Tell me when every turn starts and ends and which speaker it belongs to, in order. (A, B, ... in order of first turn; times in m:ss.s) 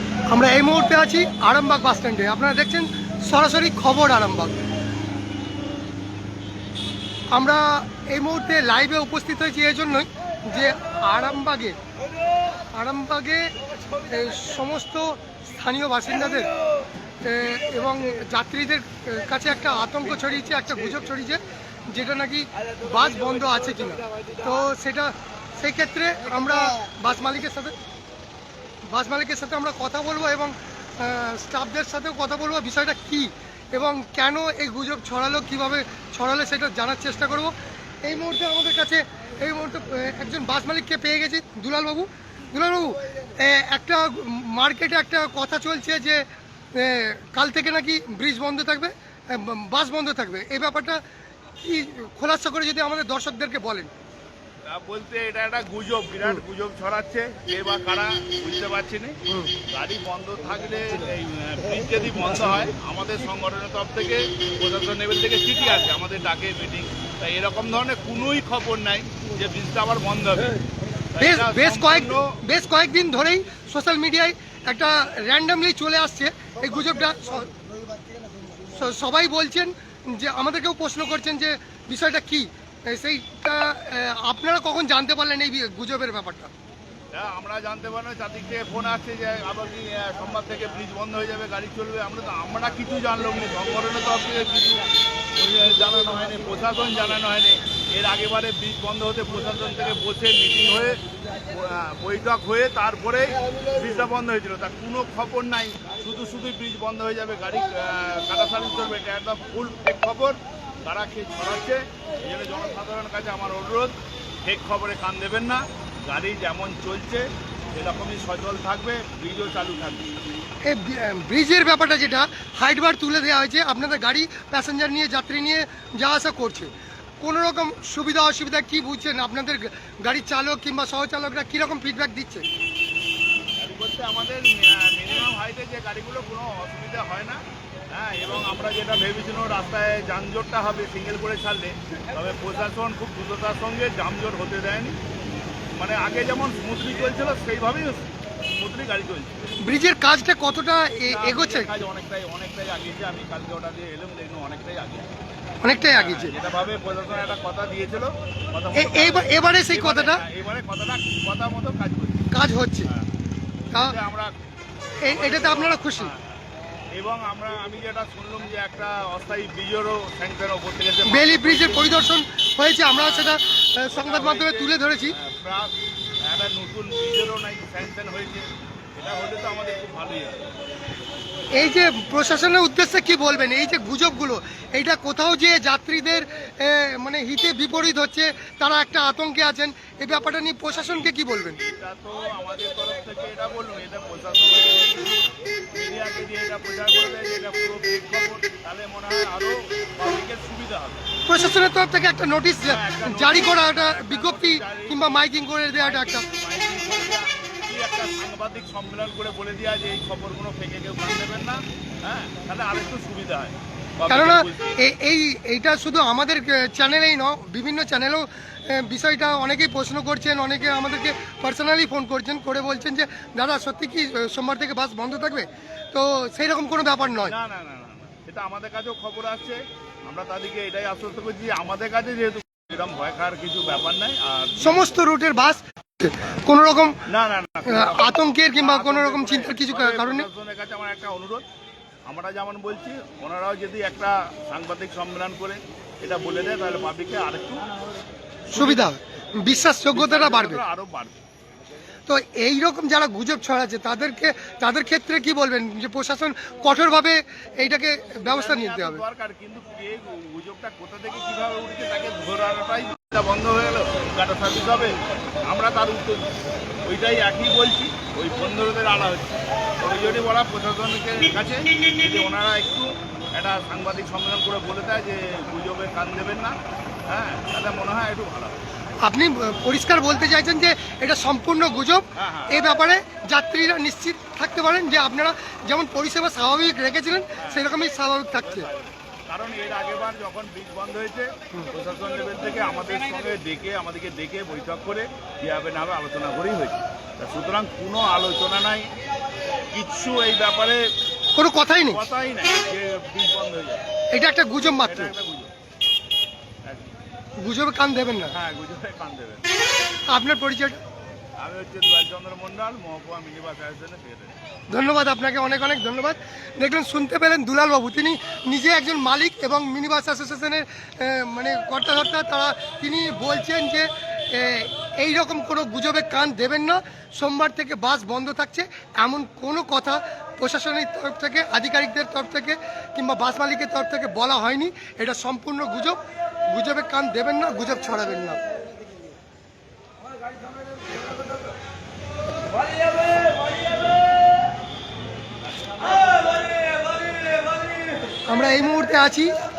0:00.3-0:04.6 A
0:07.3-0:11.8 A
0:12.7-0:16.5 A
0:17.2-0:27.8 A
0:28.9-0:46.2 A
0:46.8-0:51.0 A
0:51.6-0:53.9 A
0:54.7-0:59.2 B
0:59.7-1:10.6 B
1:11.1-1:12.4 B
1:11.2-1:17.5 A
1:18.7-1:26.5 A
1:27.1-1:34.8 B
1:35.4-2:00.1 B
2:00.7-2:06.7 A
2:07.2-2:12.4 A
2:13.6-2:25.0 B
2:25.8-2:29.4 B
2:29.6-2:31.7 A
2:31.1-2:35.1 B
2:35.6-2:36.3 A
2:35.9-2:42.3 B
2:38.8-2:40.2 A
2:42.3-2:42.9 A
2:43.7-2:44.3 B
2:45.0-2:46.1 A
2:45.1-2:46.3 B
2:46.9-2:52.1 B
2:51.0-2:55.2 A
2:52.9-3:00.4 B
3:01.6-3:11.6 A
3:11.6-3:15.2 B
3:15.7-3:21.0 B
3:21.3-3:26.2 A
3:22.6-3:34.8 B
3:34.1-3:47.4 A
3:47.2-3:54.9 B
3:54.6-3:57.0 A
3:57.1-4:01.4 B
3:57.7-4:00.3 A
4:02.1-4:07.6 B
4:08.5-4:10.6 A
4:08.5-4:08.9 B
4:09.9-4:11.2 B
4:12.1-4:19.0 A
4:18.2-4:26.3 B
4:26.9-4:36.6 B
4:37.1-4:38.6 B
4:39.0-4:48.7 A
4:42.2-4:42.7 B
4:47.4-4:47.8 B
4:48.3-4:58.9 B
4:59.7-5:00.9 B
5:01.4-5:02.0 A
5:01.9-5:03.8 B
5:04.1-5:05.1 A
5:04.8-5:05.5 B
5:06.6-5:06.9 B
5:07.4-5:08.4 A
5:08.3-5:09.4 B
5:10.1-5:10.8 A
5:11.4-5:14.4 B
5:14.7-5:38.4 A
5:48.3-5:49.3 A